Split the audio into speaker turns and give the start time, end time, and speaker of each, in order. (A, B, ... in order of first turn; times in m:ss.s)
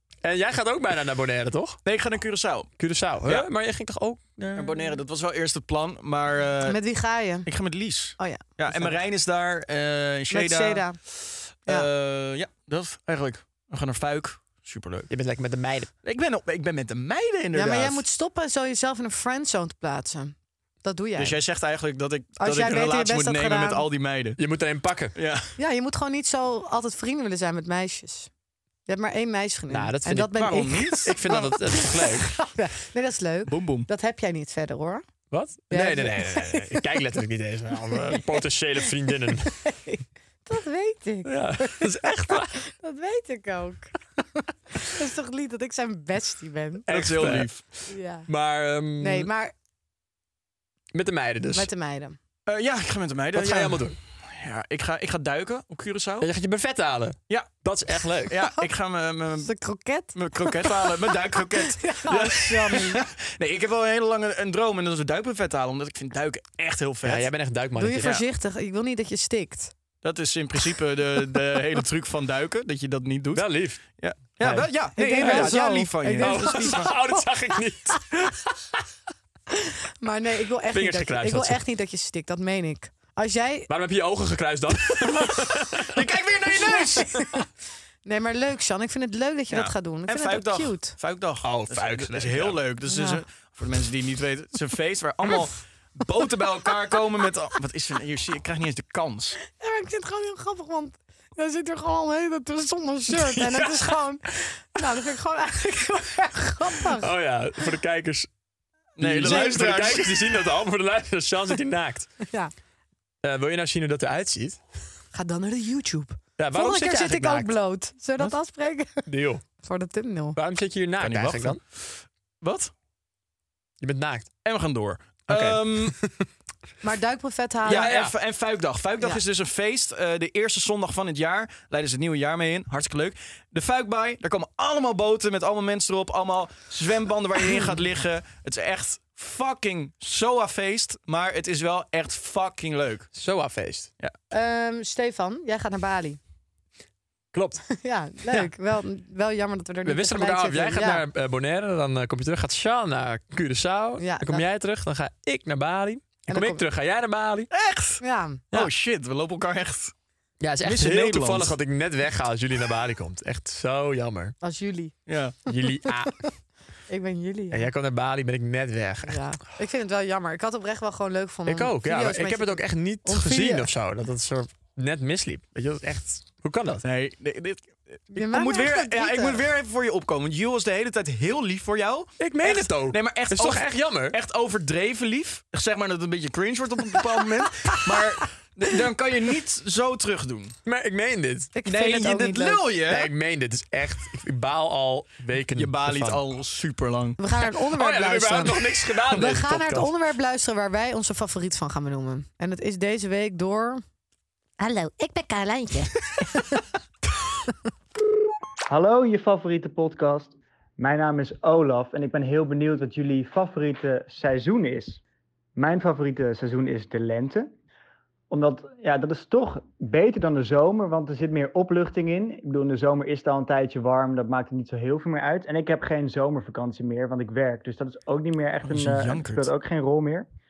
0:00.2-0:01.8 A
0:01.8-0:02.7 B
0:02.8-0:04.6 A
0:04.4-0:06.8 B
0:06.7-0:07.5 C
0:07.4-0:15.1 B
0:08.2-0:09.0 C
0:10.3-0:11.0 C
0:15.1-0:15.9 A
0:16.0-0:18.0 B
0:17.5-0:21.4 C
0:21.2-0:24.4 B
0:22.4-0:23.8 C
0:24.4-0:25.2 A
0:25.1-0:25.5 B
0:25.6-0:28.3 C
0:28.8-0:31.3 C
0:29.7-0:32.3 A
0:30.4-0:31.8 B
0:32.4-0:35.0 C
0:33.5-0:33.9 B
0:35.3-0:39.6 A
0:35.7-0:36.9 C
0:38.0-0:38.4 C
0:39.6-0:46.9 C
0:41.2-0:42.5 A
0:46.9-0:49.3 A
0:46.9-0:47.6 B
0:47.9-0:48.3 C
0:49.0-0:49.5 C
0:50.9-0:51.7 A
0:51.5-0:52.2 C
0:52.5-0:56.3 B
0:53.3-0:54.0 A
0:56.2-0:58.4 A
0:58.2-0:59.5 B
0:59.4-1:03.0 C
1:00.1-1:07.3 B
1:07.0-1:08.2 A
1:07.8-1:09.7 C
1:10.0-1:16.9 B
1:13.3-1:13.8 A
1:14.4-1:15.6 A
1:15.0-1:17.2 C
1:16.1-1:18.8 A
1:19.5-1:23.7 C
1:20.7-1:21.6 A
1:23.7-1:26.0 A
1:25.9-1:27.1 B
1:26.5-1:27.4 C
1:27.1-1:27.4 A
1:28.0-1:30.9 C
1:29.5-1:39.4 B
1:31.4-1:32.6 A
1:32.8-1:33.2 C
1:39.5-1:47.1 C
1:43.1-1:44.0 A
1:46.9-1:48.3 A
1:49.0-1:50.2 B
1:49.0-1:52.1 A
1:52.2-1:52.5 C
1:53.2-1:54.6 A
1:55.1-1:59.0 C
1:56.4-1:57.5 A
1:59.0-1:59.4 A
1:59.6-2:00.4 C
2:00.4-2:01.6 A
2:01.0-2:02.7 B
2:03.8-2:04.3 A
2:04.4-2:06.0 B
2:05.3-2:06.3 A
2:06.8-2:07.9 C
2:07.6-2:08.1 A
2:07.7-2:23.1 B
2:23.1-2:23.9 A
2:24.3-2:26.2 C
2:27.3-2:27.7 A
2:27.8-2:31.0 C
2:29.8-2:37.5 A
2:34.0-2:34.4 C
2:36.3-2:36.6 C
2:37.5-2:38.0 B
2:38.0-2:38.4 C
2:38.5-2:39.9 B
2:40.4-2:44.4 A
2:40.6-2:41.5 B
2:44.4-2:44.9 C
2:45.1-2:45.4 B
2:45.4-2:46.2 A
2:45.6-2:46.3 C
2:46.9-2:47.7 C
2:47.5-2:49.2 A
2:49.0-2:53.7 C
2:51.4-2:56.8 A
2:56.8-3:10.5 B
2:58.1-2:59.4 C
3:02.2-3:04.2 A
3:10.6-3:11.5 A
3:11.5-3:12.6 C
3:11.6-3:13.1 B
3:12.8-3:16.2 A
3:15.5-3:17.2 B
3:17.2-3:23.8 C
3:17.4-3:19.9 A
3:24.6-3:26.6 C
3:28.7-3:35.0 D
3:35.6-3:37.5 D
3:38.3-3:50.2 D
3:48.6-3:49.5 B